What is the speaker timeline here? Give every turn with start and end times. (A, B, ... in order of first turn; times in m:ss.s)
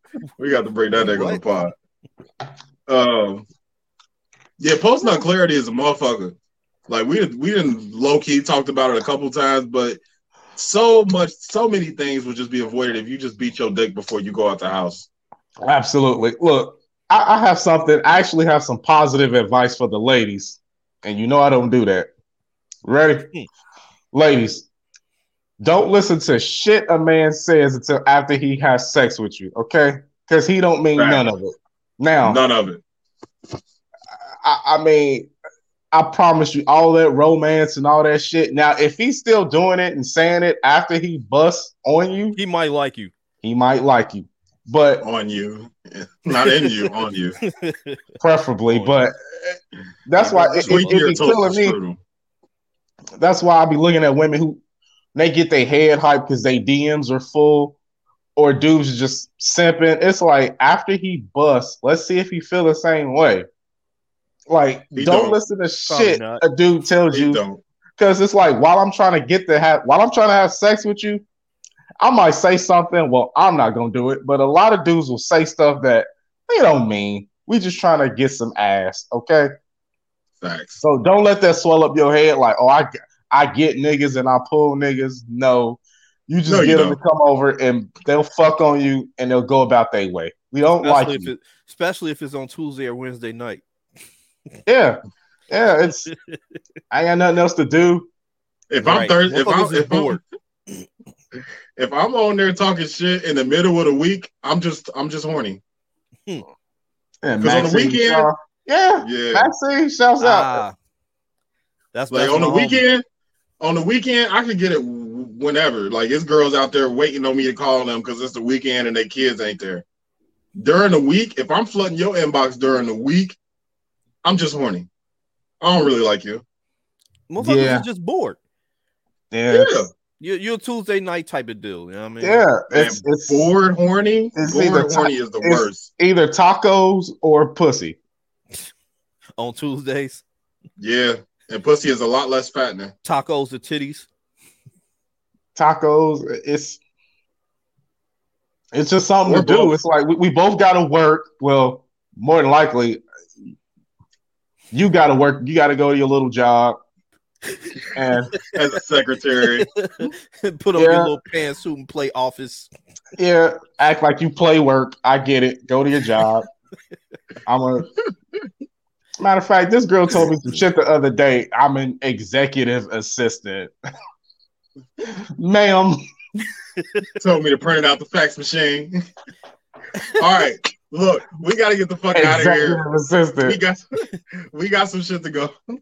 0:00.4-0:01.7 A
0:00.9-0:01.4 B
0:02.9-0:03.4 A
0:04.6-0:06.4 A
0:06.9-0:10.0 A
0:10.6-0:15.1 A
0:15.6-0:22.1 C
0:22.8-0:23.3 C
0:24.1-0:24.7 C
0:25.6-0:32.4 C
0:31.0-0:31.2 A
0:32.2-0:32.8 A
0:34.4-0:35.3 C
0:35.9-0:42.4 C
0:42.4-0:43.1 B
0:43.4-0:45.0 C
0:45.0-0:47.4 A
0:46.4-0:46.7 B
0:47.4-0:48.0 B
0:48.2-0:51.8 C
0:50.2-0:51.4 B
0:50.2-0:52.0 A
0:53.2-0:54.6 C
0:55.1-0:57.8 C
0:58.4-1:03.4 C
1:04.5-1:07.4 C
1:04.9-1:05.4 A
1:05.8-1:06.4 B
1:07.1-1:07.6 A
1:08.0-1:11.2 C
1:12.0-1:19.5 C
1:20.4-1:20.8 A
1:20.8-1:31.3 C
1:26.5-1:27.0 A
1:30.8-1:33.6 B
1:34.6-1:36.1 C
1:36.9-1:38.1 C
1:38.7-1:40.2 A
1:38.8-1:40.2 B
1:41.8-1:45.6 A
1:47.2-1:50.6 C
1:47.4-1:48.3 A
1:49.0-1:49.5 A
1:50.2-1:50.7 B
1:51.9-1:52.8 B
1:52.1-1:53.0 A
1:53.6-1:59.8 A
2:00.6-2:03.4 A
2:04.2-2:04.9 A
2:05.6-2:06.4 A
2:07.3-2:08.4 B
2:07.4-2:07.8 C
2:09.3-2:09.9 C
2:09.5-2:09.9 A
2:10.2-2:12.5 B
2:12.2-2:13.5 C
2:12.7-2:15.9 A
2:14.4-2:18.0 C
2:19.4-2:20.2 B
2:20.8-2:22.9 A
2:23.0-2:24.1 B
2:25.6-2:26.8 C
2:28.7-2:33.0 C
2:29.2-2:29.8 A
2:34.7-2:36.8 C
2:37.5-2:37.8 B
2:37.9-2:38.3 C
2:38.5-2:39.7 A
2:39.7-2:42.7 B
2:40.8-2:41.1 C
2:43.2-2:46.4 C
2:47.4-2:47.9 C
2:49.2-2:53.7 C
2:55.2-2:56.0 C
2:56.8-2:57.0 B
2:57.2-2:58.9 A
3:00.1-3:02.8 A
3:02.1-3:03.6 C
3:03.4-3:05.5 A